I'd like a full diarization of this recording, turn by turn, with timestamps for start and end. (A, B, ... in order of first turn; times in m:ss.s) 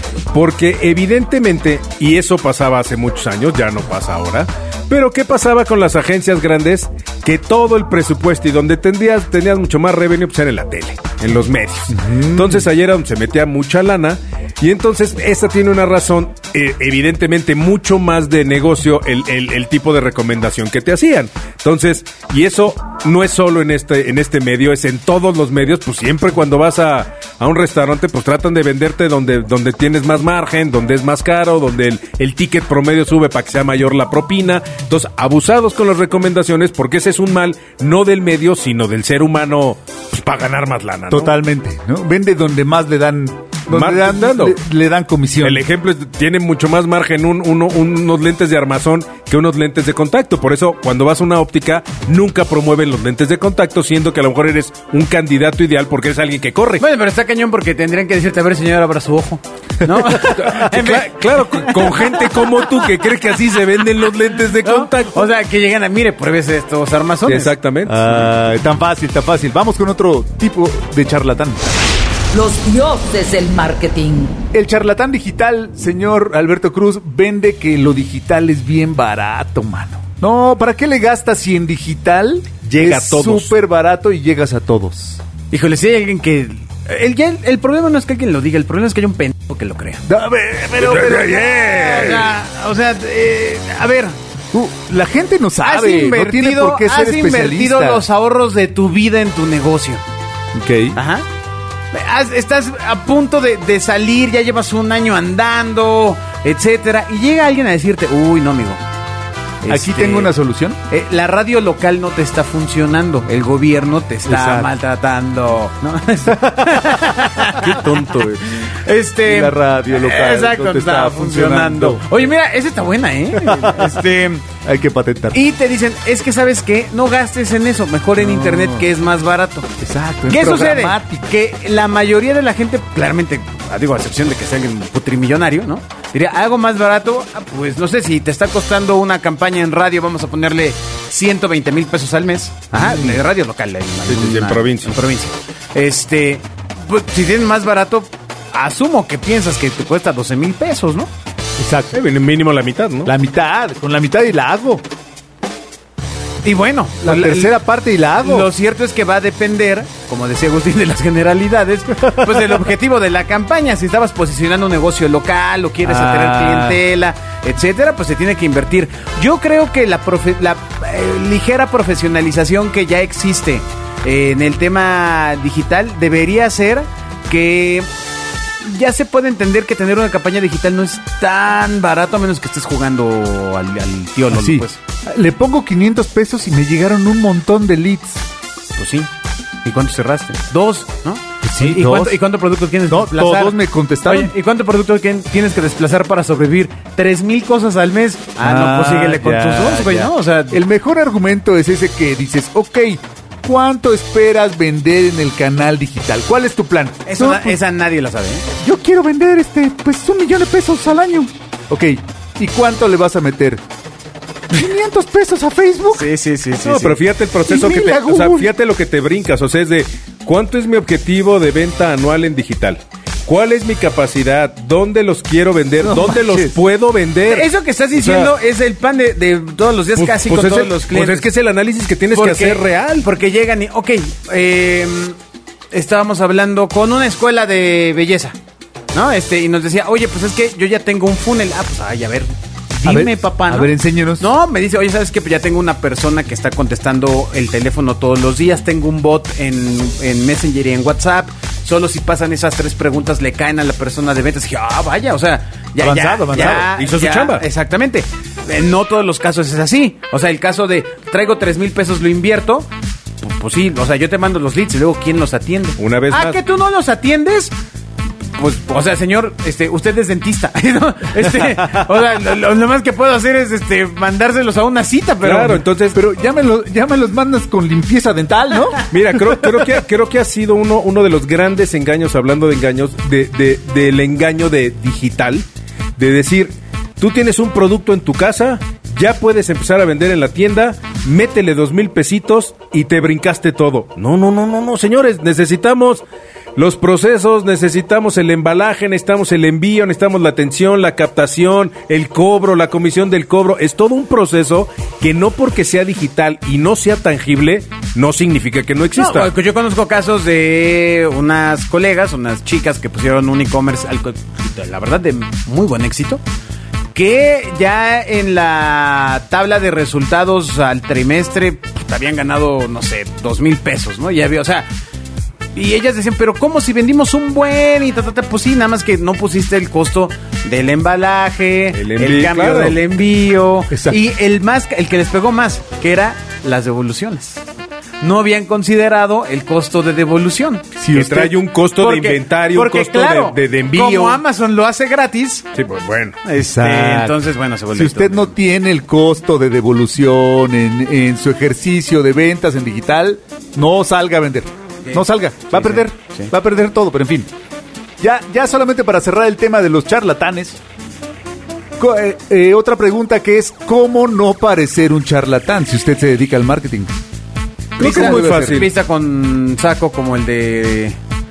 0:00.3-0:41.3 A
0:11.9-0:12.7 B
0:41.1-0:45.6 B
0:43.7-0:44.6 A
0:45.4-0:56.8 A
0:56.8-1:03.0 C
1:00.2-1:05.3 A
1:04.5-1:07.5 C
1:07.2-1:08.3 A
1:07.8-1:11.8 B
1:12.3-1:14.4 D
1:14.5-1:25.2 B
1:22.7-1:23.5 A
1:25.5-1:30.0 C
1:30.0-1:32.1 B
1:30.8-1:32.3 A
1:31.2-1:34.2 C
1:34.5-1:38.0 B
1:35.6-1:40.0 C
1:40.5-1:41.0 B
1:40.9-1:41.2 C
1:41.9-1:48.8 C
1:49.6-1:50.3 C
1:49.7-1:50.8 B
1:50.9-2:04.4 C
1:54.2-1:54.7 B
1:57.6-1:58.4 A
1:59.2-2:02.0 B
2:03.3-2:04.0 B
2:04.5-2:05.4 B
2:05.3-2:09.7 C
2:08.2-2:08.9 B
2:09.8-2:11.3 B
2:10.3-2:31.1 C
2:24.1-2:25.0 A
2:31.6-2:32.0 B
2:31.9-2:33.1 A
2:33.0-2:34.8 B
2:36.4-2:37.5 C
2:37.0-2:38.5 B
2:38.2-2:57.9 C
2:45.8-2:46.8 B
2:58.6-3:04.8 C
3:04.3-3:08.2 B
3:08.8-3:09.1 C
3:09.6-3:20.6 C
3:11.4-3:12.2 B
3:12.9-3:14.3 B
3:18.4-3:27.6 B
3:27.0-3:28.5 C
3:28.6-3:33.6 B
3:34.5-3:36.1 B
3:35.9-3:37.0 C
3:36.6-3:48.3 A
3:37.4-3:38.5 B
3:45.8-3:46.5 B
3:47.2-3:51.3 C
3:50.0-3:53.1 A
3:52.1-3:55.2 C
3:55.7-3:58.4 C
3:58.9-4:22.7 C
4:02.8-4:04.3 B
4:15.8-4:16.7 B
4:16.3-4:17.4 A
4:23.2-4:27.5 C
4:25.8-4:26.4 A
4:28.3-4:35.6 C
4:35.2-4:36.0 A
4:35.9-4:38.8 B
4:38.9-4:45.4 A
4:46.0-4:56.0 A
4:56.6-5:09.3 A
5:08.9-5:16.2 C
5:16.9-5:24.7 C
5:25.5-5:37.4 C
5:31.7-5:32.8 A
5:33.7-5:34.0 B
5:38.0-5:40.6 C
5:40.8-5:41.4 B
5:40.9-5:44.2 A
5:41.8-5:45.4 C
5:45.5-5:46.2 A
5:46.2-5:48.3 C
5:46.4-5:47.2 B
5:47.7-5:57.3 B
5:54.8-5:56.3 C
5:58.0-6:00.6 B
6:01.8-6:07.0 B
6:07.8-6:08.7 A
6:07.8-6:08.7 B
6:07.8-6:11.0 C